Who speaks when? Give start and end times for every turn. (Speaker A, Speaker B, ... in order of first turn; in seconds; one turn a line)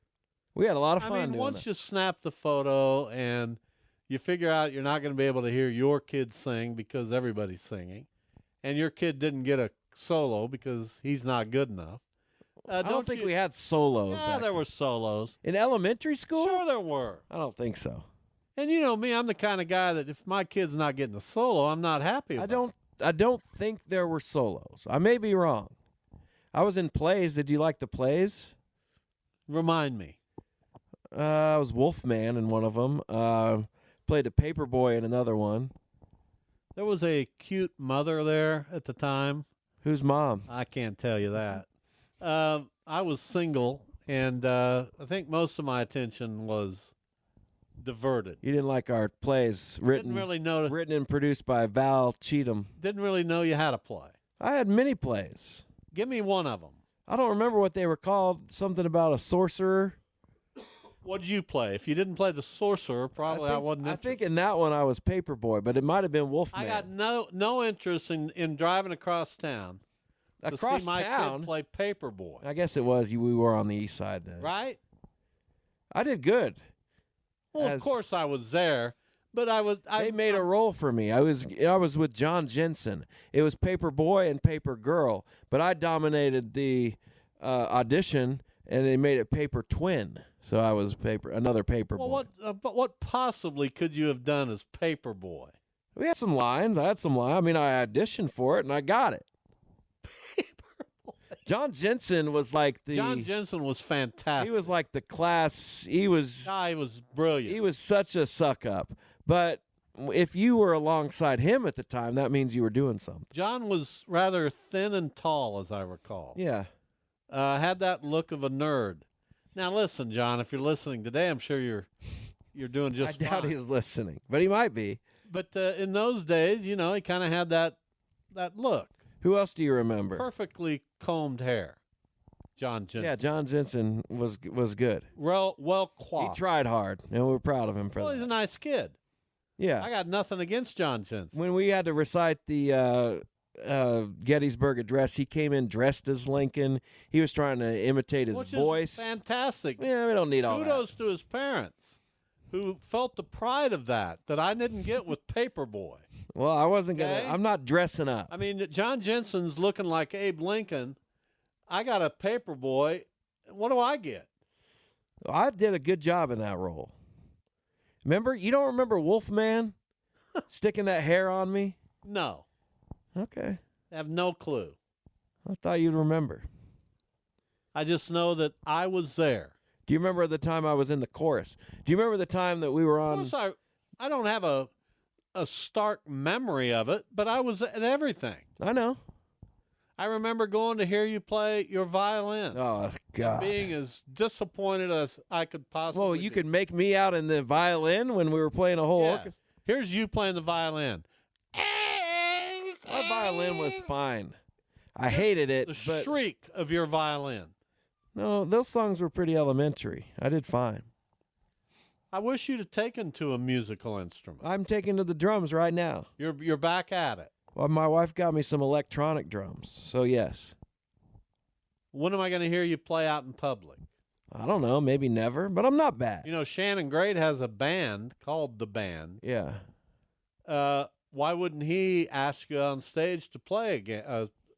Speaker A: 0.6-1.6
Speaker B: 1.0-8.1
Speaker B: 8.6-12.0
Speaker B: 12.7-13.3
Speaker A: 12.7-14.6
Speaker B: 14.1-15.4
Speaker A: 15.4-16.6
Speaker B: 16.4-17.2
Speaker A: 17.3-18.1
Speaker B: 18.6-22.6
Speaker A: 22.4-25.8
Speaker A: 26.5-28.5
Speaker B: 29.5-30.2
Speaker A: 31.1-35.7
Speaker B: 36.8-39.5
Speaker A: 39.8-40.5
Speaker B: 40.5-41.7
Speaker B: 42.2-46.9
Speaker B: 47.8-48.4
Speaker A: 48.4-52.7
Speaker B: 49.9-50.8
Speaker B: 52.8-54.1
Speaker A: 54.4-55.6
Speaker B: 55.9-56.8
Speaker A: 57.1-60.0
Speaker B: 61.0-64.2
Speaker A: 63.2-66.9
Speaker B: 66.5-69.8
Speaker A: 70.4-71.5
Speaker B: 70.5-72.4
Speaker A: 72.4-74.5
Speaker B: 74.4-74.8
Speaker A: 75.9-76.6
Speaker B: 77.5-80.5
Speaker A: 77.6-78.0
Speaker A: 80.0-92.3
Speaker B: 92.0-95.5
Speaker A: 96.0-99.3
Speaker B: 100.0-101.4
Speaker A: 101.5-103.3
Speaker B: 102.9-104.7
Speaker A: 104.4-106.5
Speaker B: 106.5-107.6
Speaker A: 107.5-113.3
Speaker B: 113.3-116.4
Speaker A: 116.3-116.7
Speaker B: 117.3-121.9
Speaker B: 122.5-123.5
Speaker A: 123.0-125.0
Speaker B: 125.3-127.8
Speaker B: 128.3-128.9
Speaker A: 129.2-130.3
Speaker B: 130.1-131.8
Speaker B: 132.6-133.2
Speaker A: 133.0-135.1
Speaker B: 135.2-136.4
Speaker A: 136.2-138.3
Speaker B: 138.0-139.0
Speaker A: 139.6-139.9
Speaker B: 139.8-141.4
Speaker A: 141.3-149.2
Speaker B: 148.3-149.9
Speaker A: 149.8-150.9
Speaker B: 150.5-152.0
Speaker B: 152.5-156.1
Speaker A: 156.3-158.3
Speaker B: 156.9-157.4
Speaker B: 158.3-161.0
Speaker B: 161.7-164.3
Speaker A: 165.2-166.9
Speaker A: 168.0-169.8
Speaker A: 170.5-171.8
Speaker B: 172.0-172.5
Speaker A: 173.2-173.6
Speaker B: 173.9-174.8
Speaker A: 175.4-176.5
Speaker B: 177.7-179.5
Speaker A: 179.9-183.3
Speaker B: 183.1-184.7
Speaker B: 185.3-188.5
Speaker A: 188.6-189.0
Speaker B: 190.0-192.6
Speaker A: 192.5-193.7
Speaker B: 193.2-196.4
Speaker A: 195.9-199.3
Speaker B: 199.0-203.8
Speaker A: 202.9-204.4
Speaker A: 205.0-206.1
Speaker B: 205.1-207.5
Speaker A: 208.2-210.9
Speaker B: 212.1-214.4
Speaker A: 214.4-216.1
Speaker B: 216.2-217.3
Speaker A: 217.6-220.6
Speaker B: 221.9-223.8
Speaker A: 224.3-226.3
Speaker B: 226.2-229.2
Speaker A: 229.2-229.6
Speaker B: 230.5-234.3